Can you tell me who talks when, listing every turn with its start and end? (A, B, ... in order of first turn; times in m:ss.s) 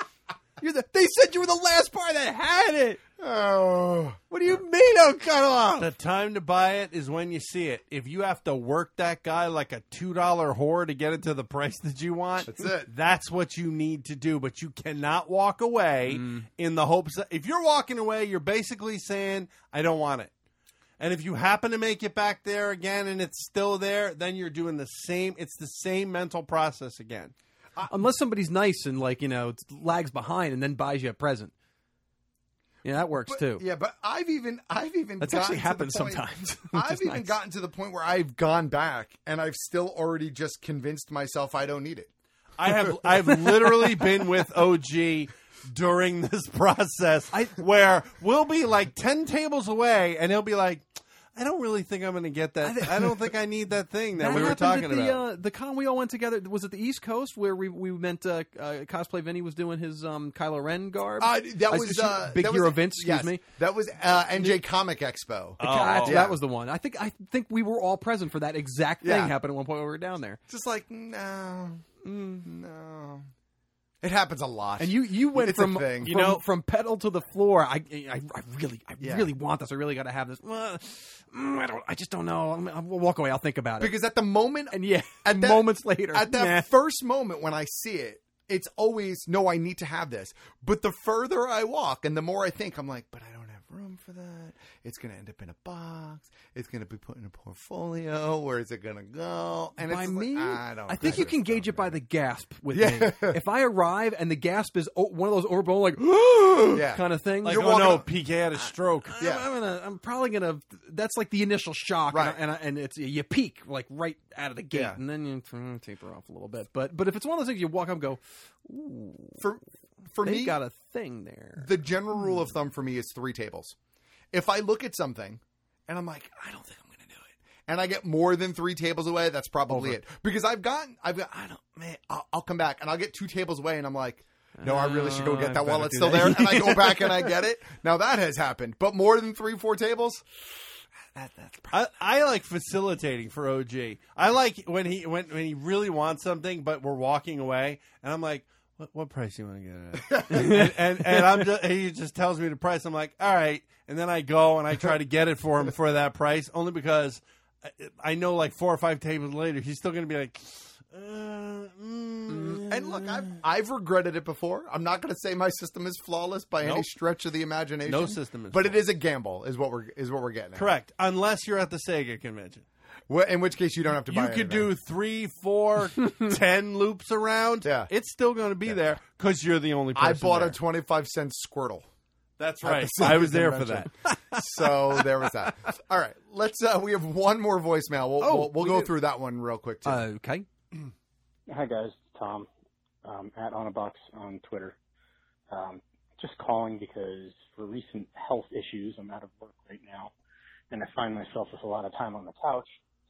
0:00.6-0:03.0 A
0:03.2-0:04.2 B
0:04.3-0:05.9 A
0:05.8-0:20.3 C
0:12.4-0:12.9 B
0:16.1-0:16.4 A
0:21.0-0:27.3 C
0:27.9-0:31.5 A
0:32.8-0:33.6 A
0:33.3-0:42.1 B
0:35.2-0:37.3 A
0:42.6-0:55.2 C
0:42.6-0:44.0 B
0:47.3-0:47.6 A
0:52.6-0:53.1 A
0:54.2-1:03.4 A
1:01.2-1:06.4 B
1:05.6-1:06.2 C
1:05.6-1:10.4 A
1:09.0-1:09.3 B
1:10.5-1:13.3 B
1:12.0-1:12.5 A
1:14.0-1:16.4 B
1:14.8-1:24.0 A
1:19.0-1:19.3 B
1:23.8-1:42.0 B
1:24.7-1:26.7 A
1:39.8-1:47.7 A
1:42.7-1:43.4 B
1:46.7-1:48.1 B
1:47.4-1:49.2 C
1:49.0-1:59.4 A
1:49.2-1:49.5 B
1:52.1-1:52.4 B
1:54.7-1:55.0 B
1:59.4-2:00.6 B
2:00.2-2:01.7 A
2:01.6-2:03.8 B
2:04.3-2:20.3 B
2:09.7-2:10.0 A
2:14.6-2:17.3 A
2:21.1-2:21.8 B
2:21.7-2:43.2 C
2:30.1-2:30.5 B
2:30.3-2:31.4 A
2:42.7-2:50.7 B
2:47.8-2:48.8 C
2:50.6-2:52.6 C
2:53.1-2:54.7 B
2:54.1-3:00.6 C
2:57.6-2:57.9 B
2:59.9-3:01.8 B
3:02.4-3:04.4 C
3:02.6-3:10.1 B
3:08.2-3:08.9 A
3:09.8-3:10.4 A
3:11.5-3:12.5 D
3:13.0-3:14.7 D
3:15.5-3:20.1 D
3:20.7-3:22.7 D